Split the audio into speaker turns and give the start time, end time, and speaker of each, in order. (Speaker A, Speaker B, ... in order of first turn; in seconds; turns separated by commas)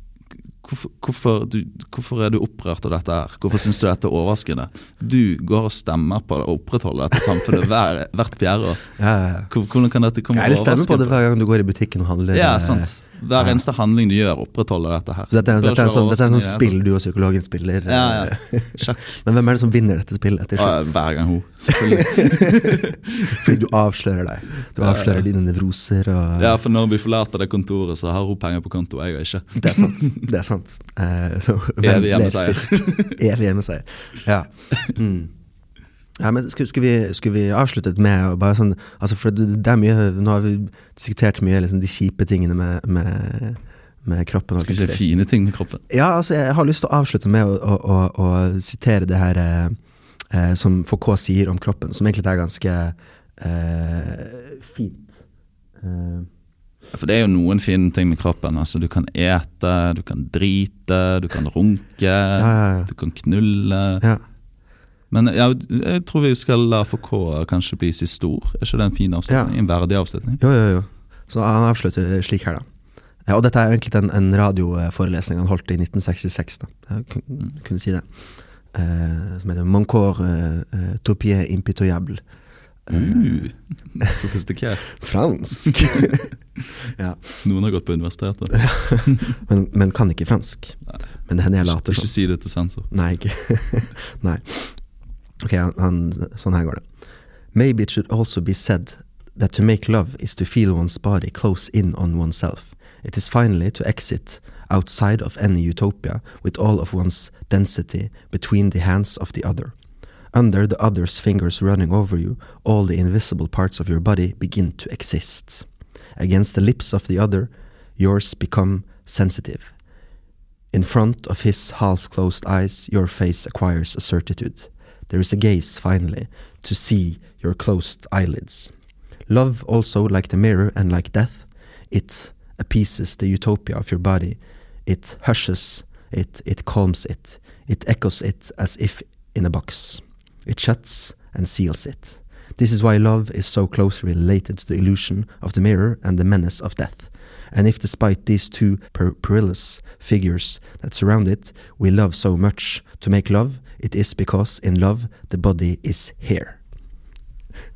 Speaker A: 0.6-8.9, Speaker B: 9.0-9.5, Speaker A: 9.5-11.2, Speaker B: 10.3-13.6, Speaker A: 12.3-16.7, Speaker B: 15.3-20.9, Speaker A: 17.8-19.2, Speaker A: 20.6-23.6, Speaker B: 21.9-26.6, Speaker A: 24.8-25.2, Speaker A: 26.4-30.2, Speaker B: 29.6-35.3, Speaker A: 31.8-33.2, Speaker B: 36.2-45.0, Speaker A: 44.6-45.8, Speaker B: 45.9-49.8, Speaker B: 50.3-55.2, Speaker B: 55.8-56.3, Speaker A: 56.9-64.0, Speaker B: 62.4-62.9, Speaker A: 65.1-70.4, Speaker B: 69.3-69.5, Speaker B: 70.4-72.7, Speaker B: 73.3-78.1, Speaker B: 78.7-82.2, Speaker B: 82.8-83.5, Speaker A: 82.9-84.9, Speaker B: 84.9-86.3, Speaker A: 85.8-86.2, Speaker B: 87.0-87.4, Speaker A: 87.4-89.3, Speaker B: 88.5-92.1, Speaker A: 91.6-92.9, Speaker B: 92.9-94.8, Speaker B: 95.4-96.8, Speaker B: 97.5-109.7, Speaker B: 110.3-119.7, Speaker B: 120.7-128.7, Speaker B: 129.3-156.6